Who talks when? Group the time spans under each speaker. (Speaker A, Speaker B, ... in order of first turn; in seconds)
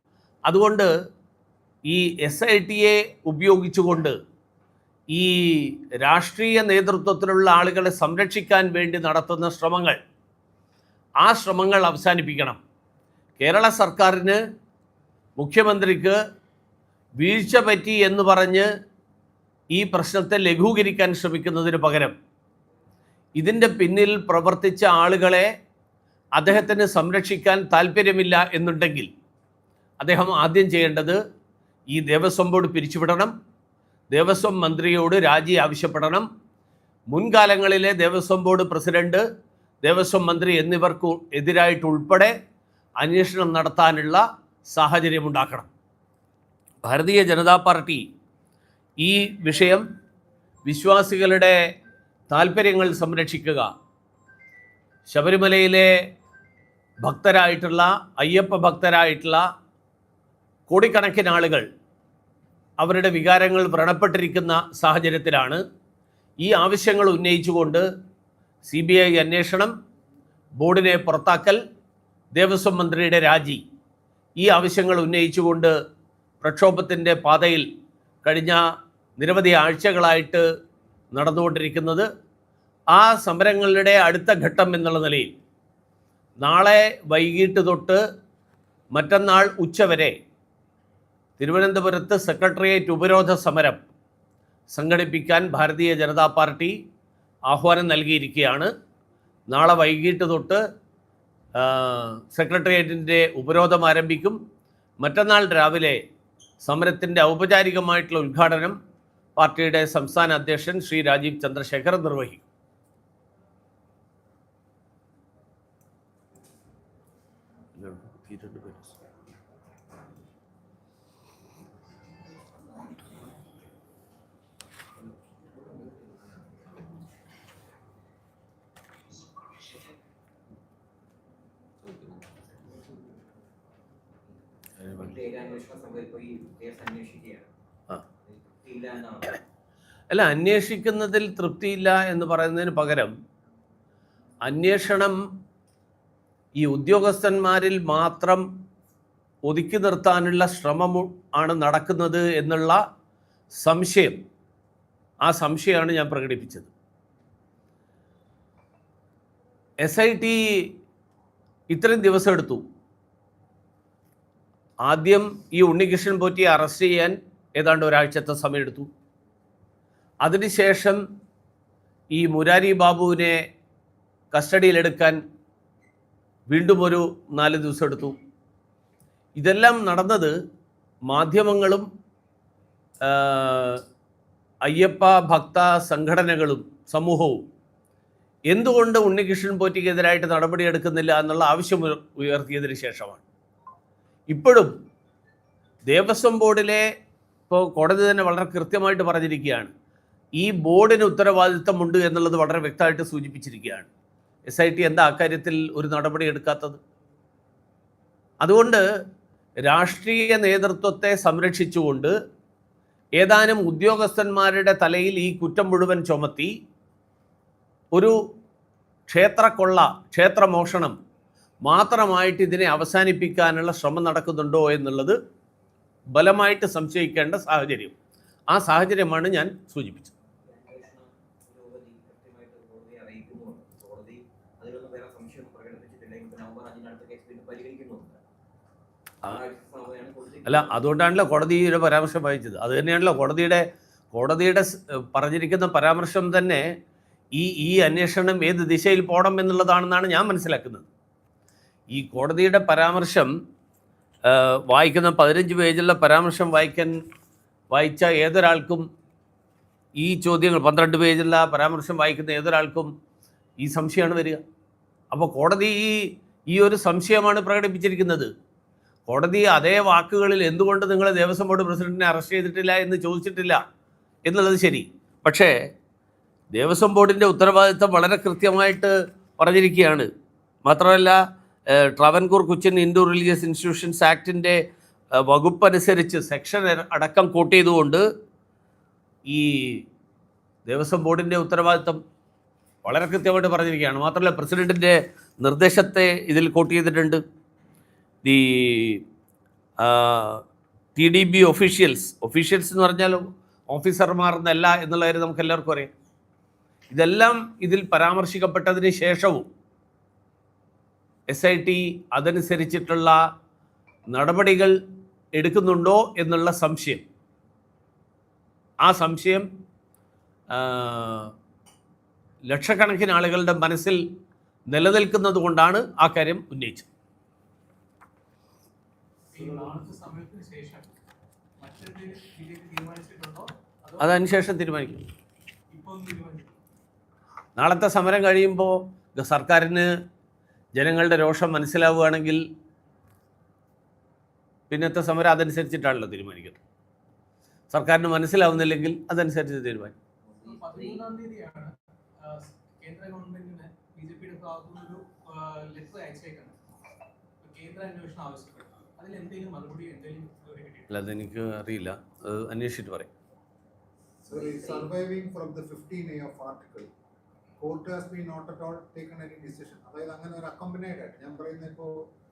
Speaker A: 0.5-0.9, 1.9-4.2, 5.1-10.0, 11.2-12.6, 13.4-14.4, 15.4-16.2, 17.2-18.7, 19.7-22.1, 23.4-25.5, 26.3-29.1, 30.0-31.2, 31.9-33.3, 34.1-36.3, 37.1-39.2, 39.8-42.3, 43.0-45.7, 46.8-48.1, 49.0-49.8, 50.7-51.6, 52.3-53.7, 55.1-56.0, 57.0-59.4, 60.7-61.7, 62.8-65.6, 66.4-67.9, 68.6-69.7, 70.6-71.6, 72.3-73.6, 74.4-75.7, 76.4-77.7, 78.2-80.5, 81.1-82.1, 82.9-85.3, 86.4-88.0, 88.9-90.2, 91.4-93.9, 94.7-96.8, 97.5-98.7, 99.5-100.6, 101.6-104.4, 105.0-106.0, 106.6-108.8, 109.4-112.5, 117.8-118.9, 134.8-135.1, 140.1-143.1, 144.4-145.2, 146.6-148.5, 149.4-152.8, 153.6-154.2, 155.2-156.7, 159.8-160.7, 161.7-162.6, 164.8-168.9, 170.2-171.0, 172.1-173.4, 174.3-175.2, 176.5-178.2, 179.4-180.3, 181.1-181.9, 183.1-183.8, 184.7-187.4, 188.5-193.2, 194.3-194.7, 195.9-196.8, 197.5-199.7, 200.4-203.9, 204.5-206.8, 208.4-208.8, 209.6-212.1, 213.2-216.5, 219.1-220.9, 221.6-225.2, 226.1-227.9, 228.5-230.1, 240.4-246.7, 247.3-250.9, 251.9-253.3, 254.3-257.0, 257.7-258.9, 260.0-262.9, 263.6-264.4, 265.1-268.3, 269.1-273.6, 274.2-275.6, 276.5-280.1, 280.6-284.6, 285.1-288.1, 289.3-289.9, 290.7-292.0, 292.8-297.2, 298.2-299.0, 299.8-300.4, 301.0-305.9, 306.9-309.5, 311.3-313.2, 314.1-314.8, 315.3-317.0, 318.8-319.5, 320.5-321.3, 322.5-324.0, 324.7-326.9, 334.0-335.1, 337.6-339.9, 340.7-342.4, 344.7-346.6, 347.7-349.9, 360.9-363.1
Speaker B: 134.9-137.5, 138.2-139.4, 230.5-238.2, 239.3-240.7, 350.3-350.8, 364.3-364.9
Speaker C: 329.3-330.9, 331.6-334.2, 335.7-336.5, 350.4-351.7, 352.2-356.6, 357.4-360.9
Speaker D: 364.3-366.9, 367.6-372.1